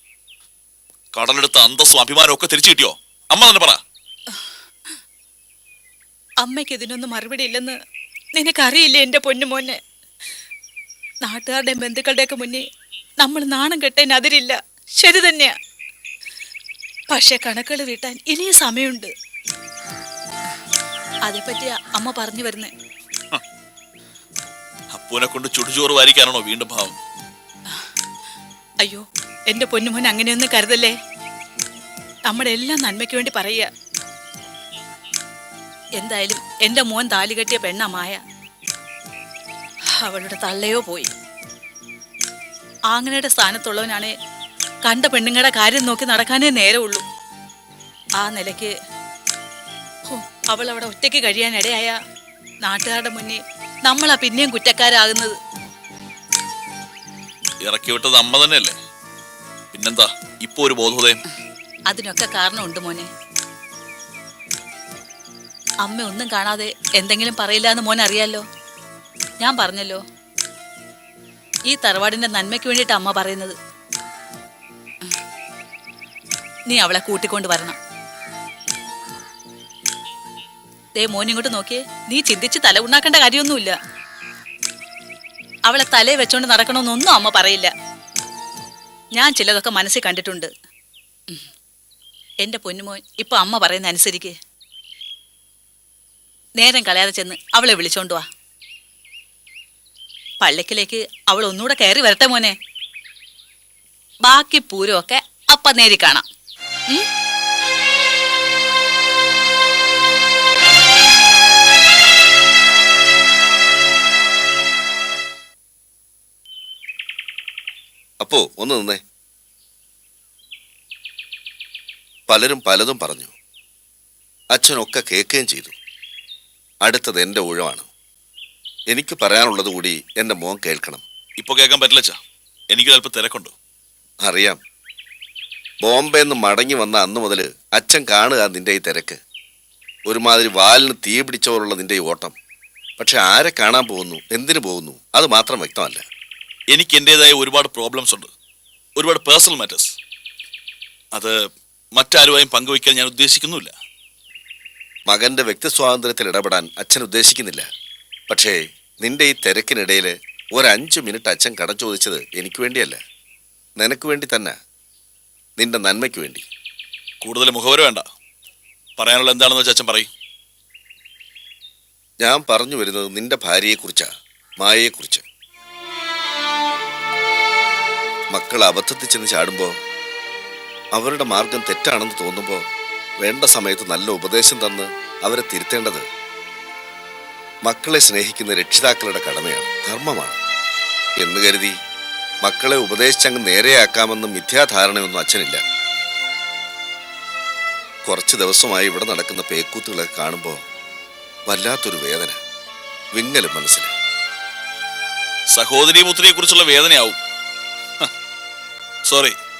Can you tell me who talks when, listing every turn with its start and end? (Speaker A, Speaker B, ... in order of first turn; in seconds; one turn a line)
Speaker A: 1.1-3.8
Speaker B: 6.4-7.8
Speaker B: 8.3-9.8
Speaker B: 11.2-12.6
Speaker B: 13.2-15.5
Speaker B: 17.1-19.1
Speaker B: 21.3-22.7
Speaker A: 24.9-27.0
Speaker B: 28.8-30.9
Speaker B: 32.3-33.7
Speaker B: 36.0-38.2
Speaker B: 40.0-41.1
Speaker B: 42.9-44.1
Speaker B: 44.8-47.0
Speaker B: 48.2-48.7
Speaker B: 50.1-52.0
Speaker B: 52.6-55.4
Speaker A: 57.6-58.8
Speaker A: 59.7-61.2
Speaker B: 61.9-63.1
Speaker B: 65.8-68.4
Speaker B: 69.4-70.0
Speaker B: 71.7-73.6
Speaker B: 76.7-77.8
Speaker B: 81.0-83.8
Speaker B: 85.7-87.7
Speaker B: 89.2-90.5
Speaker B: 92.4-94.3
Speaker B: 96.6-98.2
Speaker B: 100.4-102.5
Speaker B: 104.2-106.2
Speaker C: 118.2-119.0
Speaker C: 122.3-123.3
Speaker C: 124.5-125.7
Speaker C: 126.8-127.9
Speaker C: 128.9-131.0
Speaker A: 131.4-132.2
Speaker A: 132.7-133.5
Speaker C: 134.2-134.6
Speaker C: 135.8-139.2
Speaker C: 140.1-142.3
Speaker C: 143.0-146.0
Speaker A: 146.7-148.3
Speaker A: 148.9-150.0
Speaker A: 151.9-153.7
Speaker C: 155.1-157.7
Speaker C: 158.3-163.0
Speaker C: 163.8-164.6
Speaker C: 165.6-166.4
Speaker A: 167.2-168.1
Speaker A: 169.0-170.1
Speaker C: 172.2-175.2
Speaker C: 178.3-179.7
Speaker C: 180.9-182.6
Speaker C: 183.2-186.1
Speaker C: 187.7-190.4
Speaker C: 191.2-191.8
Speaker C: 192.4-195.6
Speaker C: 198.0-200.6
Speaker C: 201.5-202.4
Speaker C: 203.2-203.9
Speaker A: 205.5-207.2
Speaker A: 209.1-209.4